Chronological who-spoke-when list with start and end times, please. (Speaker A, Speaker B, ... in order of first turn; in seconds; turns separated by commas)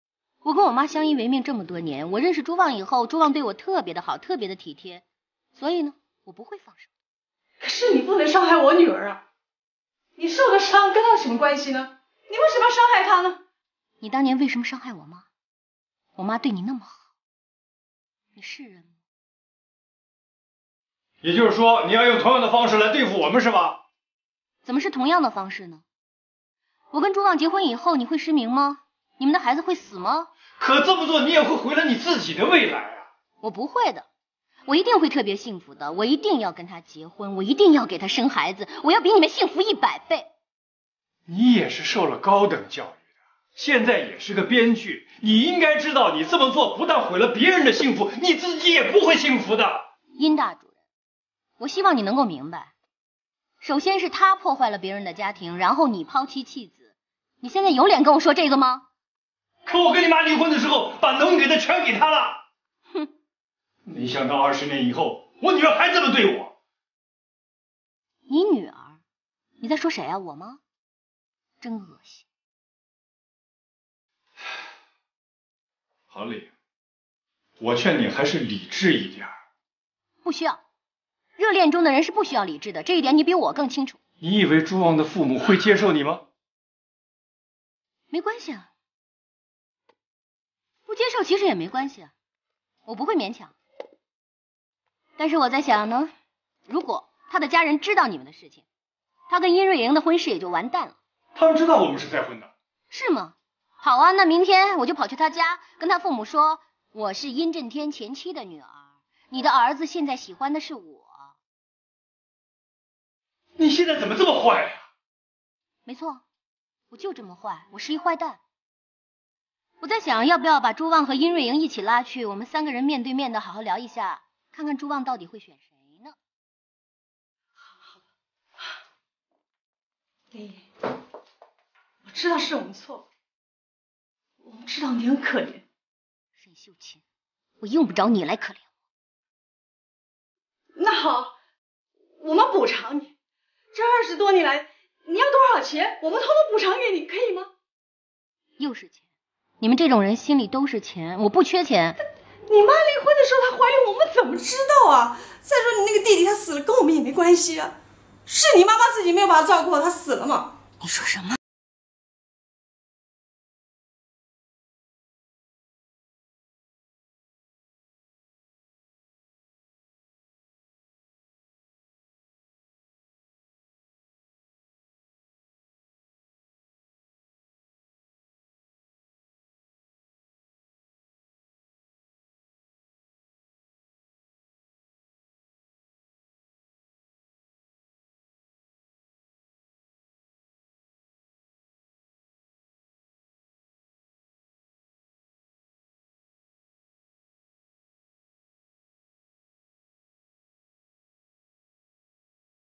Speaker A: 0.4-5.0, Speaker A: 5.5-6.9, Speaker B: 7.6-9.2, Speaker B: 10.2-13.4, Speaker A: 14.0-15.2, Speaker A: 16.1-16.9, Speaker A: 18.3-18.9, Speaker C: 21.2-23.8, Speaker A: 24.6-25.8, Speaker A: 26.9-30.3, Speaker C: 30.6-33.0, Speaker A: 33.4-34.0, Speaker A: 34.6-40.3, Speaker C: 41.3-43.0, Speaker C: 43.5-49.8, Speaker A: 50.1-50.7, Speaker A: 51.6-52.7, Speaker A: 53.6-58.9, Speaker C: 59.7-62.4, Speaker C: 63.9-66.5, Speaker A: 68.3-69.0, Speaker A: 69.6-70.6, Speaker A: 71.6-72.2, Speaker C: 76.1-76.5, Speaker C: 77.6-79.3, Speaker A: 80.2-80.6, Speaker A: 81.4-84.0, Speaker C: 84.2-86.2, Speaker A: 88.1-88.7, Speaker A: 90.9-92.1, Speaker A: 92.8-93.5, Speaker A: 95.2-96.1, Speaker A: 96.7-98.6, Speaker A: 99.3-100.9, Speaker C: 101.3-102.5, Speaker A: 102.9-111.2, Speaker C: 113.6-114.8, Speaker A: 115.8-116.2, Speaker A: 116.9-118.4, Speaker A: 119.8-126.1, Speaker B: 130.3-130.7, Speaker B: 132.0-133.1, Speaker B: 134.4-135.6, Speaker A: 136.4-137.0, Speaker A: 137.6-138.6, Speaker B: 140.8-141.3, Speaker B: 142.2-143.1, Speaker B: 143.7-147.5, Speaker A: 148.6-149.0, Speaker A: 149.6-152.0, Speaker B: 152.5-157.7, Speaker B: 158.2-160.5, Speaker A: 160.8-161.4